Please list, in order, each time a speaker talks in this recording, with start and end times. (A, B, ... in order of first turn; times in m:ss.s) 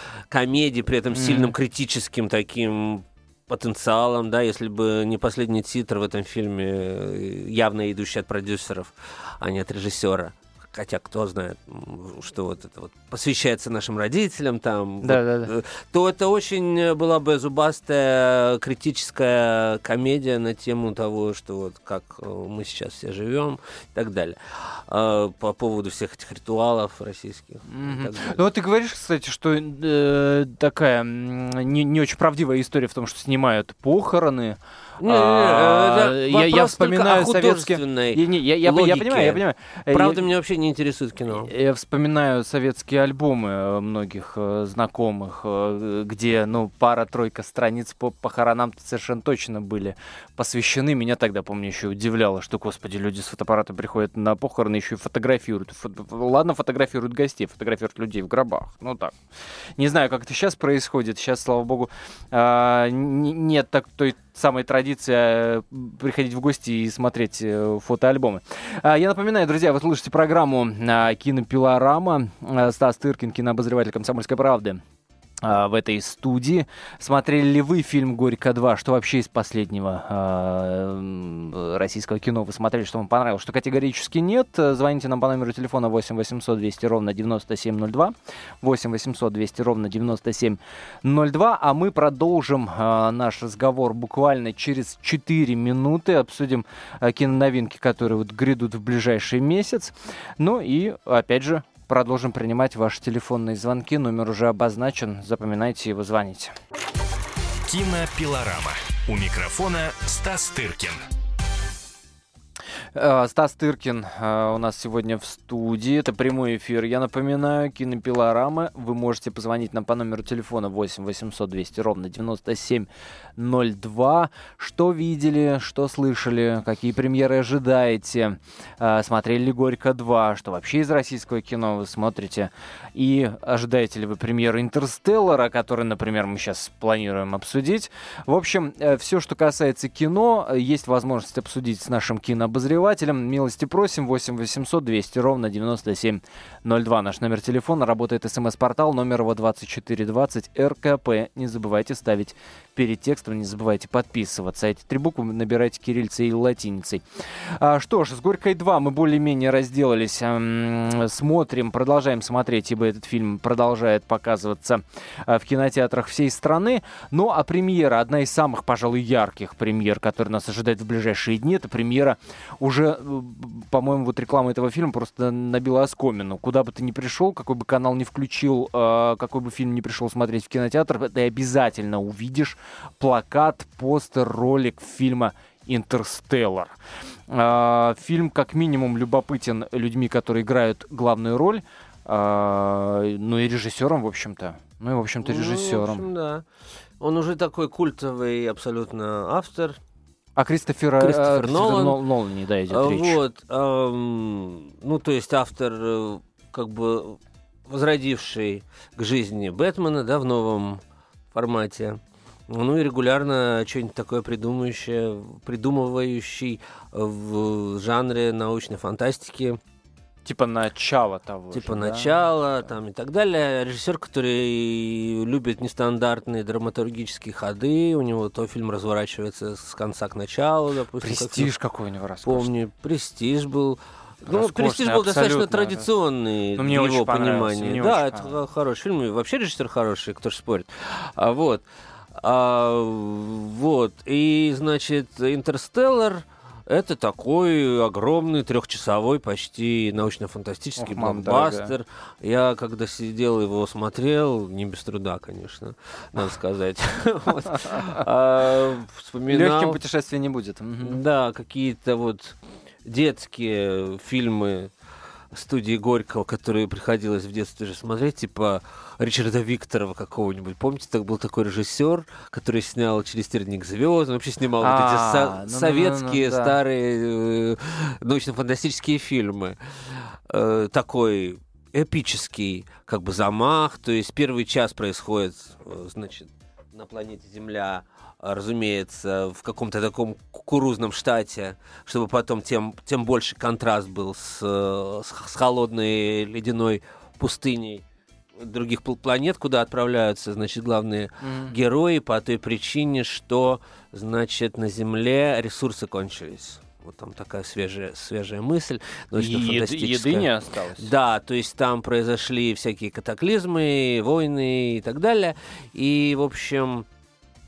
0:00.3-0:28.4 A
0:01.1-0:01.5 B
0:15.0-0:15.5 B
0:27.7-0:40.2 B
0:35.0-0:41.5 A
0:41.4-0:59.1 B
0:59.8-1:14.8 B
1:15.4-1:46.5 B
1:47.6-1:51.0 C
1:52.9-3:06.7 B
3:07.3-3:16.1 B
3:15.2-3:16.4 A
3:17.0-3:19.8 A
3:20.4-3:23.2 B
3:21.0-3:22.0 A
3:22.7-3:30.8 A
3:31.3-3:39.6 A
3:40.2-3:42.1 B
3:41.5-3:51.5 A
3:51.0-3:52.5 B
3:52.2-4:19.8 A
3:54.3-3:55.9 B
3:56.6-3:58.3 B
4:10.8-4:11.7 B
4:19.3-4:21.0 B
4:20.8-4:24.7 A
4:25.3-4:57.8 A
4:34.6-4:36.6 B
4:58.4-5:16.9 A
5:01.2-5:01.5 B
5:09.2-5:10.9 B